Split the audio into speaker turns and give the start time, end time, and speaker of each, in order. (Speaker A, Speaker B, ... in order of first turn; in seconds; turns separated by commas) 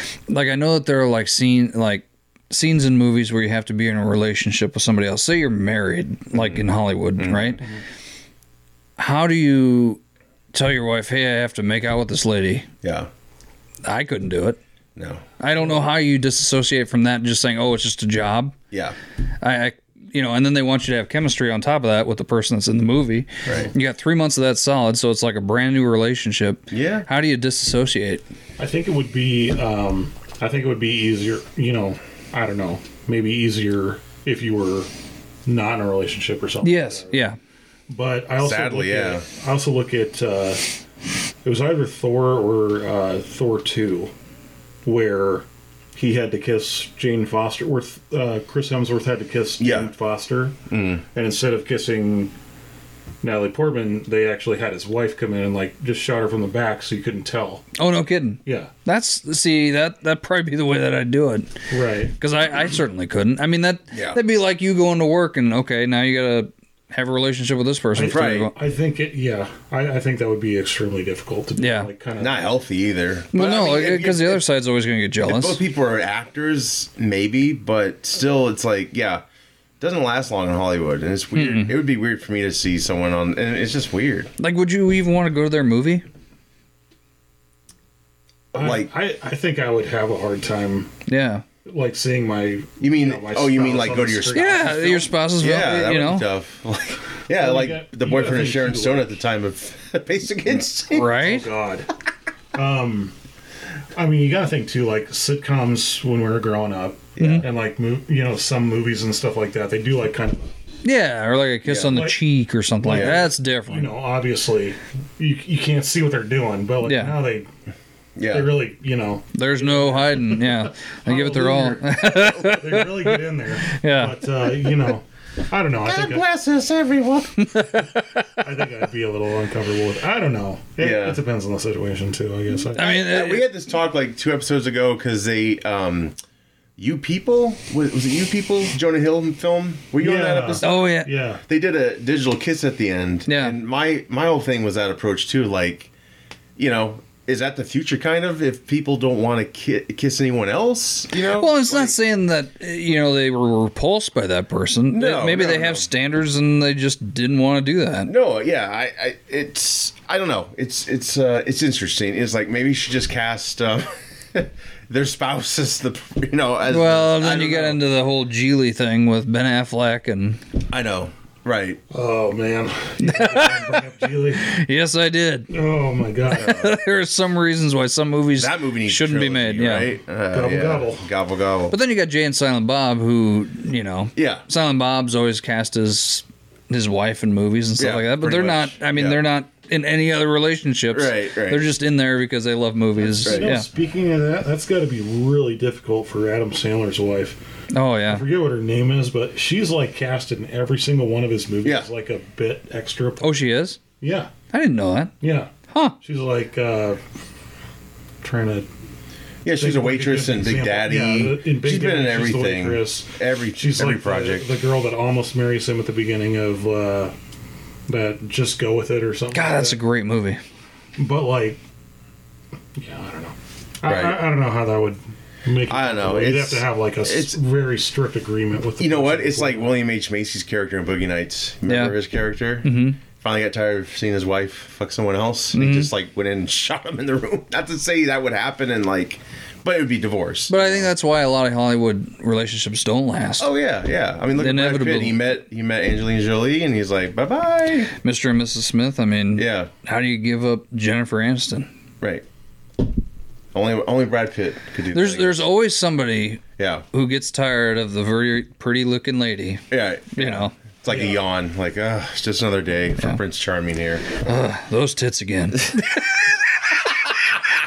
Speaker A: 0.3-7.6, Speaker B: 6.4-6.6, Speaker B: 7.2-7.6, Speaker A: 9.0-10.0, Speaker A: 10.5-12.7, Speaker B: 12.8-13.1, Speaker A: 13.8-14.6, Speaker B: 15.0-15.2, Speaker A: 15.4-18.6, Speaker B: 18.7-19.0, Speaker A: 19.4-28.2, Speaker B: 26.7-27.1, Speaker C: 28.6-34.9, Speaker C: 35.5-37.2, Speaker A: 36.6-37.4, Speaker C: 37.9-40.6, Speaker B: 38.4-39.3, Speaker C: 41.4-44.1, Speaker C: 44.9-50.6, Speaker B: 49.6-49.9, Speaker B: 50.7-51.0, Speaker C: 51.1-52.3, Speaker C: 53.2-57.6, Speaker A: 57.8-61.5, Speaker C: 58.5-58.7, Speaker C: 61.7-62.2, Speaker A: 62.2-68.5, Speaker B: 63.9-64.2, Speaker C: 67.9-72.5, Speaker B: 68.0-68.5, Speaker A: 71.6-71.9, Speaker B: 72.2-74.4, Speaker A: 73.3-75.6, Speaker B: 75.2-79.2, Speaker B: 79.8-84.3, Speaker A: 81.3-81.8, Speaker A: 84.4-86.0, Speaker C: 88.5-90.9, Speaker B: 88.5-88.9, Speaker A: 91.1-91.4, Speaker C: 91.7-95.2, Speaker B: 92.8-94.6, Speaker A: 94.3-96.3, Speaker B: 95.4-101.2, Speaker C: 97.3-99.2, Speaker A: 100.9-101.5, Speaker C: 101.2-101.9, Speaker C: 102.5-103.1, Speaker C: 104.0-110.5, Speaker B: 107.2-107.5, Speaker A: 107.2-107.5, Speaker A: 110.8-113.9, Speaker C: 111.7-112.2, Speaker C: 112.8-117.5, Speaker B: 112.9-113.3, Speaker A: 116.8-117.2, Speaker B: 118.2-118.6, Speaker C: 118.3-126.2, Speaker A: 119.3-124.2, Speaker B: 121.1-122.2, Speaker B: 125.8-127.5, Speaker A: 127.5-128.1, Speaker C: 128.4-132.9, Speaker B: 130.8-131.2, Speaker A: 132.8-133.5, Speaker B: 132.8-136.2, Speaker B: 136.8-140.8, Speaker C: 140.0-141.4, Speaker A: 140.6-141.1, Speaker B: 141.5-145.9, Speaker A: 143.3-143.6, Speaker B: 146.6-152.0, Speaker A: 151.3-158.1, Speaker B: 154.9-155.9, Speaker B: 158.1-167.8, Speaker A: 166.7-170.4, Speaker B: 170.7-171.8, Speaker C: 171.9-174.5, Speaker A: 173.0-173.8, Speaker A: 174.4-175.5, Speaker C: 175.5-176.5, Speaker A: 176.3-179.9, Speaker B: 176.3-176.8, Speaker B: 178.4-181.8, Speaker C: 180.3-181.1, Speaker A: 181.7-193.7, Speaker B: 184.2-184.4, Speaker B: 187.8-189.2, Speaker B: 190.9-191.7, Speaker C: 193.0-197.4, Speaker B: 193.2-193.5, Speaker A: 197.7-198.2, Speaker C: 198.1-203.4, Speaker A: 203.2-203.8, Speaker C: 204.0-204.3, Speaker A: 204.5-205.1, Speaker C: 205.2-207.0, Speaker A: 205.7-206.0, Speaker C: 208.2-208.7, Speaker B: 209.4-214.5, Speaker C: 209.5-217.1, Speaker C: 217.9-219.8, Speaker A: 219.3-220.4, Speaker C: 221.0-221.6, Speaker C: 222.8-229.7, Speaker B: 223.8-224.2, Speaker B: 225.7-227.4, Speaker B: 228.8-240.9, Speaker A: 231.7-231.9, Speaker A: 232.6-233.0, Speaker A: 235.5-235.9, Speaker A: 240.5-243.5, Speaker B: 243.4-247.9, Speaker A: 244.3-245.3, Speaker A: 248.0-251.7, Speaker B: 249.4-249.7, Speaker B: 252.0-252.2, Speaker B: 253.5-255.5, Speaker A: 254.9-256.4, Speaker B: 256.6-256.9, Speaker A: 256.9-260.6, Speaker B: 259.7-264.2, Speaker C: 260.9-261.2, Speaker A: 264.2-265.7